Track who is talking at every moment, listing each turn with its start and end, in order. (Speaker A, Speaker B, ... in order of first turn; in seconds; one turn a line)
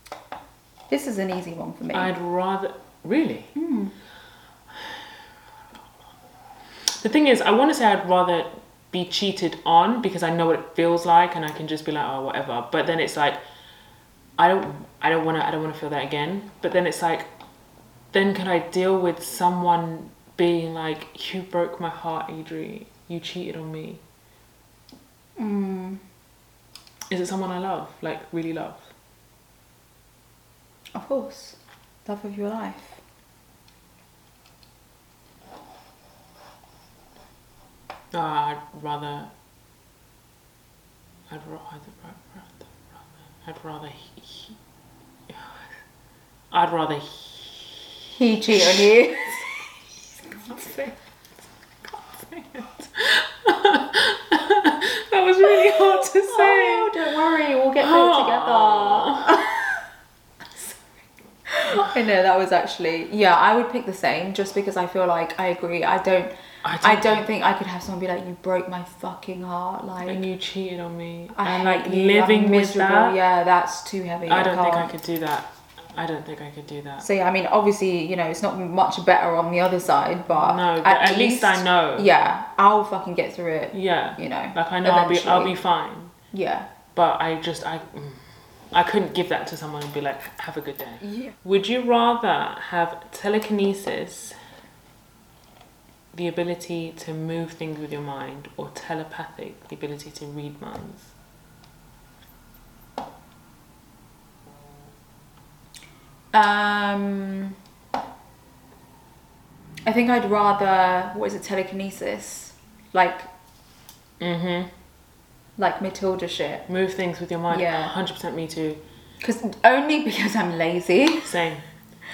Speaker A: 0.9-2.1
Speaker B: 1.9-3.5
Speaker A: 3.5-4.0
Speaker B: 7.0-13.4
Speaker B: 14.4-17.3
Speaker B: 18.1-24.0
Speaker A: 25.4-26.0
Speaker B: 27.1-28.9
Speaker A: 30.9-33.0
Speaker B: 38.1-39.3
Speaker B: 41.3-44.6
Speaker B: 45.3-45.6
Speaker B: 46.5-47.9
Speaker A: 48.1-49.5
Speaker B: 48.6-51.0
Speaker B: 51.9-57.0
Speaker A: 55.5-59.8
Speaker B: 57.8-59.4
Speaker A: 60.5-60.8
Speaker A: 61.5-70.3
Speaker B: 66.6-67.2
Speaker B: 70.0-73.2
Speaker A: 71.3-74.9
Speaker B: 74.3-77.1
Speaker A: 77.0-85.6
Speaker B: 80.3-82.1
Speaker B: 83.7-86.1
Speaker A: 86.3-86.7
Speaker B: 87.0-94.4
Speaker A: 91.0-91.4
Speaker B: 96.1-101.1
Speaker A: 106.3-107.5
Speaker A: 109.9-113.3
Speaker B: 114.2-114.7
Speaker A: 115.6-116.7
Speaker B: 116.7-118.8
Speaker A: 117.5-117.9
Speaker A: 119.2-121.3
Speaker B: 121.2-121.6